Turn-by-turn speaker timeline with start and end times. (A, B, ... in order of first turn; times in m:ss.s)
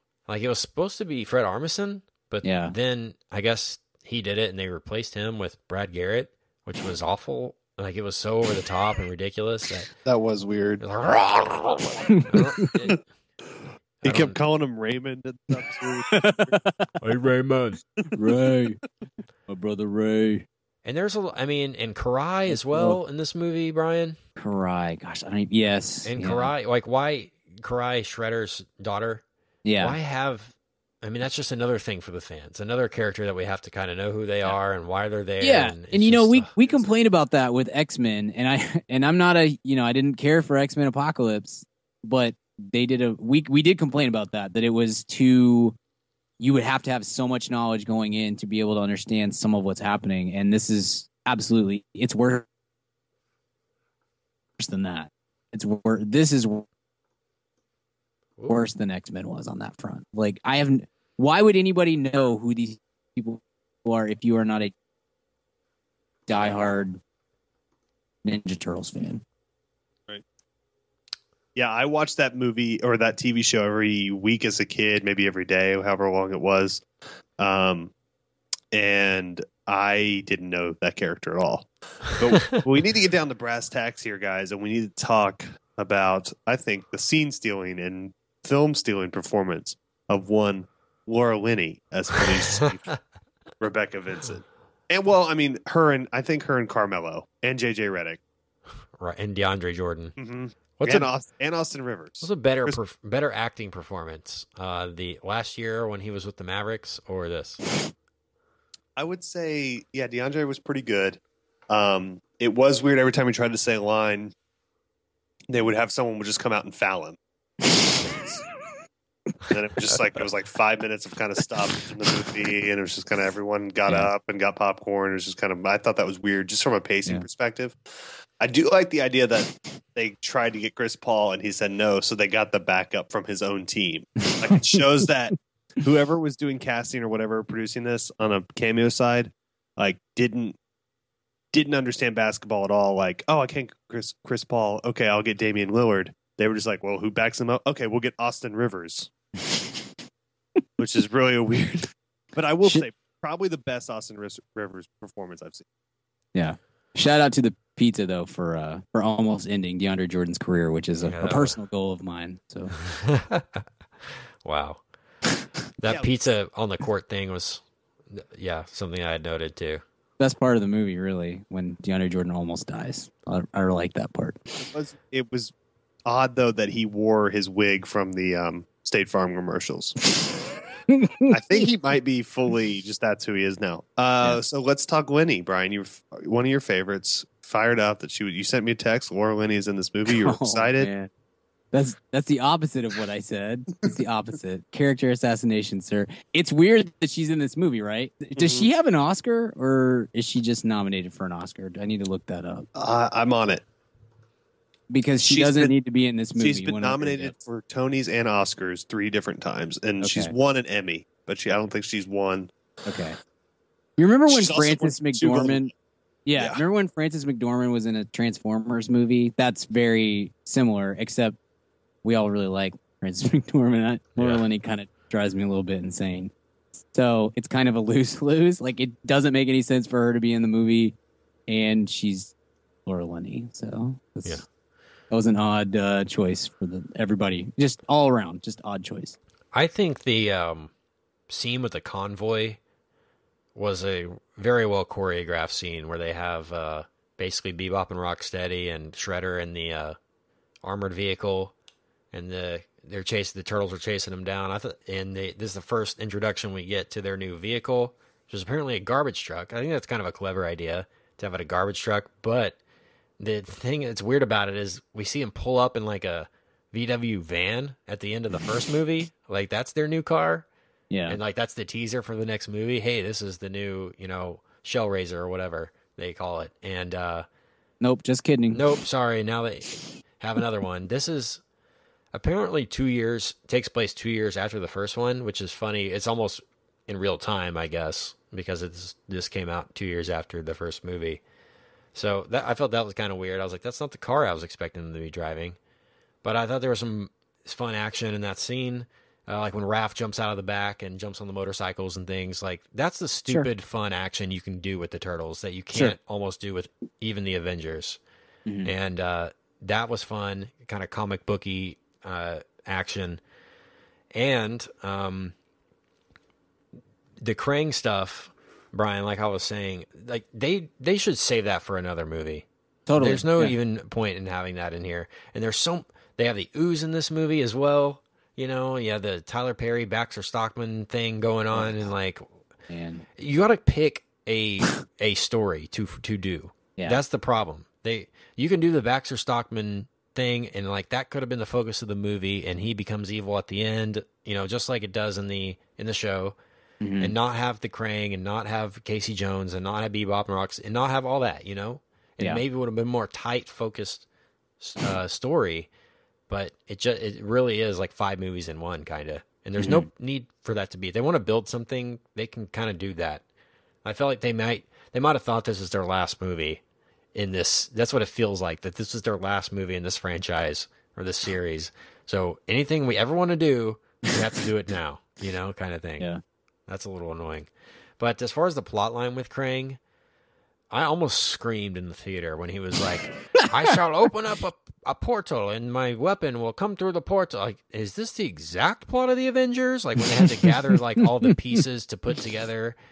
0:00.3-0:09.9 A
0:02.4-0:02.8 B
0:10.0-0:10.8 C
0:10.8-0:13.0 A
0:12.1-0:12.7 B
0:14.0-0:14.4 A
0:14.0-0:16.5 C
0:16.1-0:16.9 B
0:17.0-0:17.8 A
0:18.1-0:18.8 B
0:19.5-0:20.5 B
0:20.8-0:24.2 A
0:22.5-0:23.0 B
0:24.4-0:26.5 B
0:26.0-0:29.2 A
0:29.6-0:30.0 B
0:29.8-0:36.5 A
0:35.4-0:45.8 B
0:46.4-0:52.5 B
0:54.6-0:56.7 B
0:58.4-0:58.6 A
0:58.5-1:04.7 B
1:06.3-1:07.0 B
1:08.2-1:09.2 B
1:11.6-1:16.8 C
1:17.4-1:17.9 C
1:18.7-1:32.9 C
1:33.6-1:38.2 C
1:39.0-1:40.1 A
1:40.2-1:42.8 C
1:40.8-1:41.1 A
1:42.2-1:47.6 A
1:49.0-1:51.2 C
1:51.7-1:54.3 C
1:55.5-1:57.2 C
1:59.5-2:07.8 C
2:08.4-2:20.6 C
2:14.2-2:14.8 B
2:21.5-2:29.1 C
2:29.5-2:29.8 B
2:30.8-2:35.6 C
2:36.3-2:42.8 B
2:41.0-2:41.6 A
2:42.8-2:44.8 A
2:45.8-2:49.8 A
2:50.2-2:54.7 B
2:54.7-2:55.5 C
2:56.1-3:00.0 C
3:00.9-3:01.6 B
3:01.3-3:10.9 C
3:10.2-3:11.1 B
3:11.7-3:22.7 B
3:18.4-3:18.7 C
3:22.8-3:23.6 C
3:24.9-3:27.3 B
3:25.2-3:25.7 C
3:26.4-3:32.5 C
3:30.0-3:30.3 B
3:32.8-3:33.2 B
3:34.0-3:35.7 B
3:34.3-3:35.6 C
3:36.3-3:41.4 B
3:36.4-3:36.6 C
3:42.0-3:46.3 B
3:44.2-3:44.4 A
3:46.9-3:51.0 B
3:51.5-3:52.3 B
3:52.9-3:54.4 B
3:55.1-3:59.2 B
3:59.5-4:00.7 A
4:01.3-4:02.6 A
4:03.6-4:10.0 A
4:10.6-4:11.5 A
4:12.1-4:22.6 A
4:23.2-4:30.5 A
4:30.9-4:31.2 B
4:31.1-4:37.3 A
4:37.8-4:38.6 B
4:38.5-4:41.4 A
4:42.1-4:51.2 A
4:51.9-4:55.6 A
4:56.2-5:08.0 A
5:08.5-5:08.7 B
5:08.6-5:13.2 A
5:14.1-5:15.4 A
5:17.2-5:22.5 A
5:22.9-5:23.6 B
5:23.0-5:32.3 A
5:32.7-5:33.0 B
5:33.2-5:46.4 A
5:46.8-5:47.2 B
5:47.0-5:54.1 A
5:54.6-5:55.7 A
5:56.3-6:03.2 A
5:59.6-5:59.9 B
6:03.8-6:06.6 A
6:07.1-6:16.1 A
6:16.7-6:19.8 A
6:20.7-6:32.8 A